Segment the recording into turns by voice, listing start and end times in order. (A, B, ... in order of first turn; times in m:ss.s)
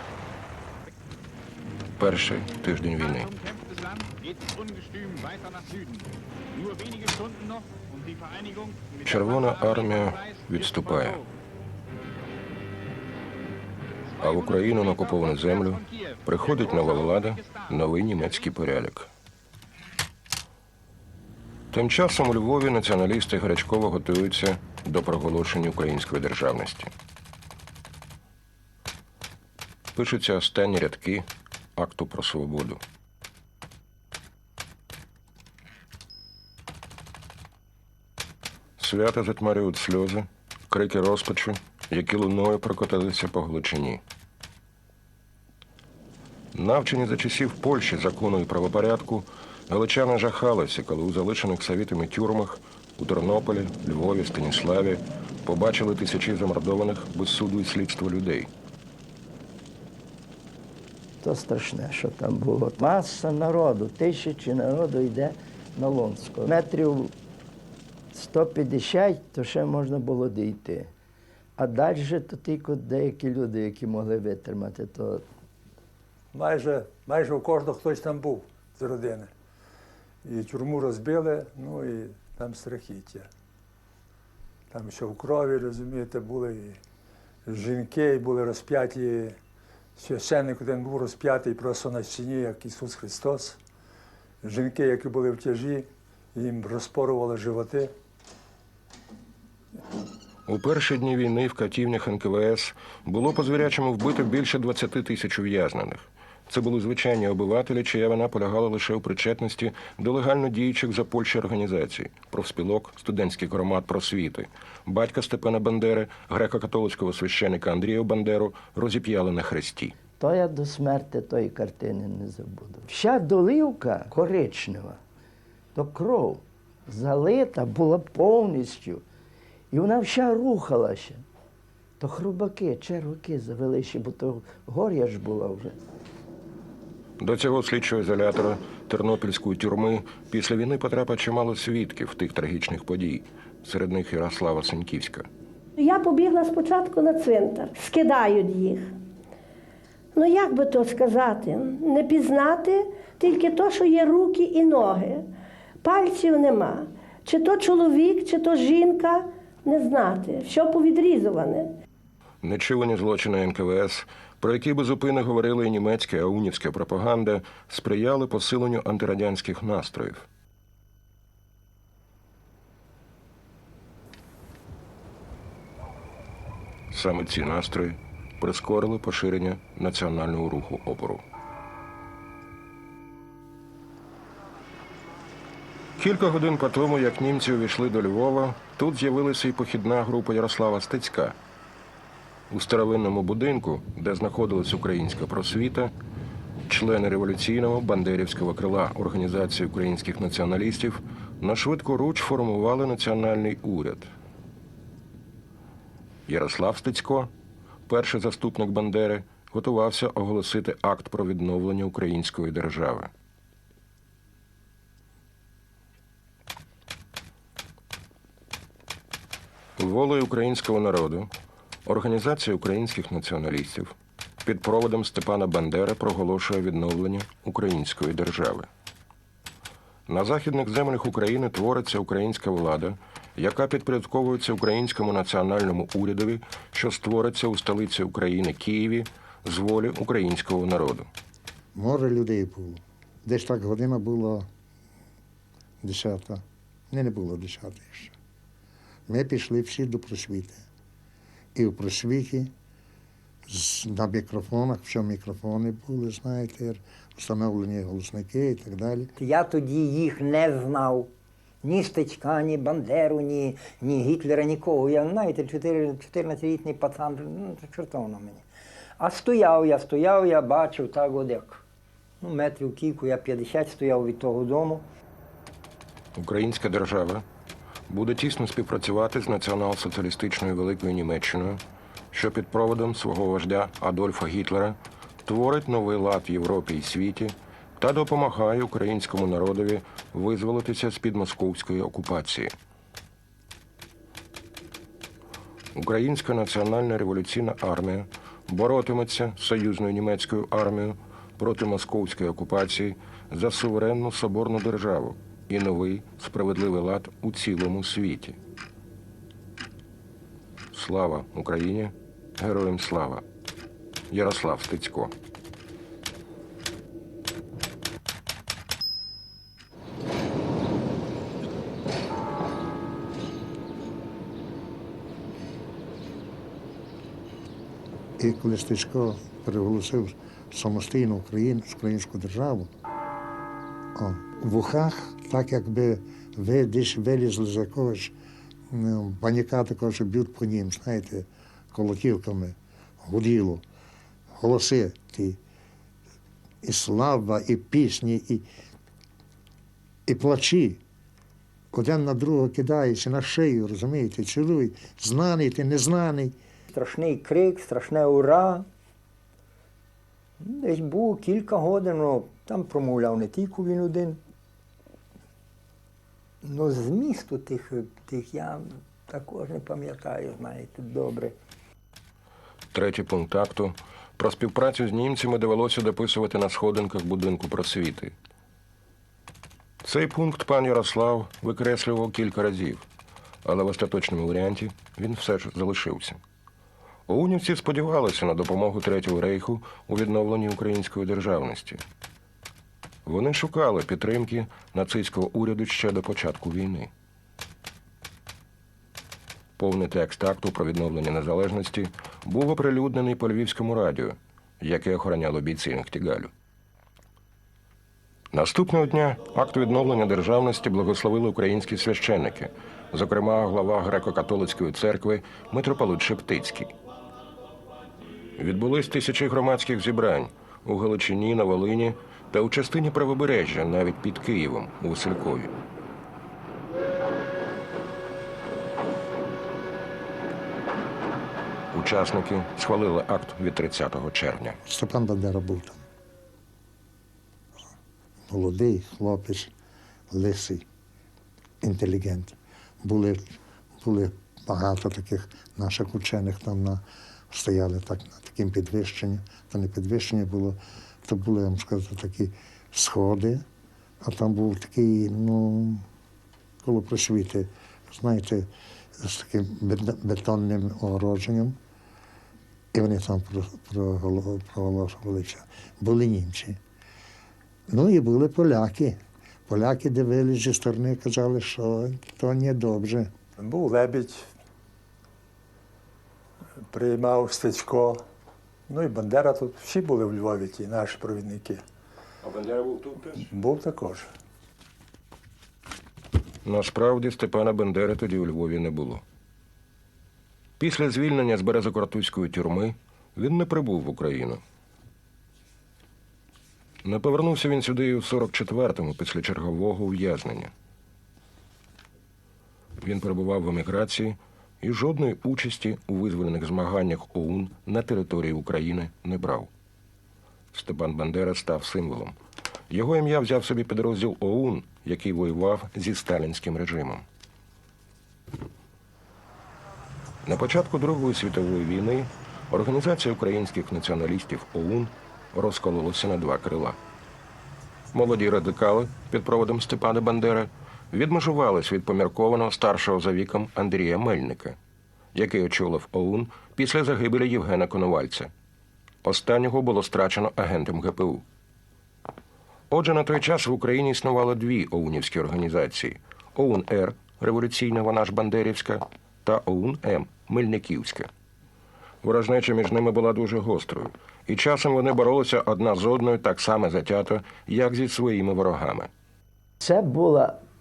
0:02.0-0:03.3 A
0:09.0-0:11.2 A
0:14.2-0:19.1 A
0:21.7-0:26.9 A
0:29.9-0:32.8 A
0:38.8-0:44.0 A
0:46.5-0:58.5 A
1:01.2-1:07.1 B
1:08.1-1:10.9 B
1:11.6-1:15.2 B
1:16.3-1:19.3 C
1:20.2-1:23.3 C
1:24.7-1:26.8 C
1:27.4-1:29.4 C
1:30.0-1:33.6 C
1:34.4-1:37.9 C
1:40.4-2:00.0 A
2:00.2-2:05.0 B
2:05.7-2:09.0 B
2:09.7-2:11.2 B
2:12.0-2:15.8 B
2:17.2-2:25.3 A
2:25.8-2:28.9 D
2:30.1-2:35.3 D
2:35.8-2:41.7 D
2:42.4-2:50.3 A
2:56.9-3:01.2 A
3:06.0-3:11.4 A
3:12.5-3:15.9 A
3:16.7-3:24.1 A
3:26.3-3:27.3 A
3:27.9-3:33.1 A
3:39.8-3:41.3 A
3:41.8-3:48.7 A
3:50.1-4:01.1 A
4:01.7-4:04.5 E
4:05.8-4:08.1 E
4:09.1-4:10.6 E
4:11.5-4:12.5 E
4:13.5-4:19.1 E
4:19.2-4:21.1 F
4:21.6-4:28.4 F
4:29.0-4:31.6 F
4:32.2-4:34.9 F
4:36.1-4:37.2 A
4:37.9-4:52.5 A
4:55.7-5:08.4 A
5:10.7-5:13.2 A
5:14.1-5:15.1 A
5:28.2-5:32.7 E
5:33.9-5:38.1 E
5:38.7-5:43.6 E
5:44.3-5:45.4 E
5:46.6-5:48.4 E
5:50.1-5:50.8 E
5:51.7-5:56.4 E
5:56.7-5:58.6 F
6:00.4-6:04.2 F
6:06.4-6:11.3 F
6:12.7-6:18.1 A
6:19.8-6:22.8 A
6:23.4-6:26.2 A
6:27.1-6:31.8 A
6:33.0-6:36.9 A
6:39.6-6:46.3 A
6:48.3-6:56.7 A
6:58.4-7:05.5 A
7:11.7-7:14.6 A
7:14.6-7:15.8 E
7:18.3-7:19.5 E
7:20.1-7:20.6 E
7:21.6-7:33.4 E
7:34.0-7:35.8 E
7:36.6-7:41.6 E
7:42.7-7:46.6 E
7:47.7-7:53.1 E
7:53.4-7:54.2 C
7:56.7-7:58.0 C
7:58.7-8:01.6 C
8:02.2-8:03.2 A
8:03.2-8:04.1 C
8:06.4-8:09.0 A
8:10.6-8:14.4 A
8:16.8-8:20.5 A
8:22.8-8:29.5 A
8:30.5-8:32.2 A
8:32.7-8:37.0 A
8:40.2-8:46.8 A
8:47.9-8:54.6 A
8:55.1-8:58.3 A
8:59.0-9:01.2 A
9:02.7-9:11.1 A
9:12.0-9:18.9 A
9:19.6-9:20.4 B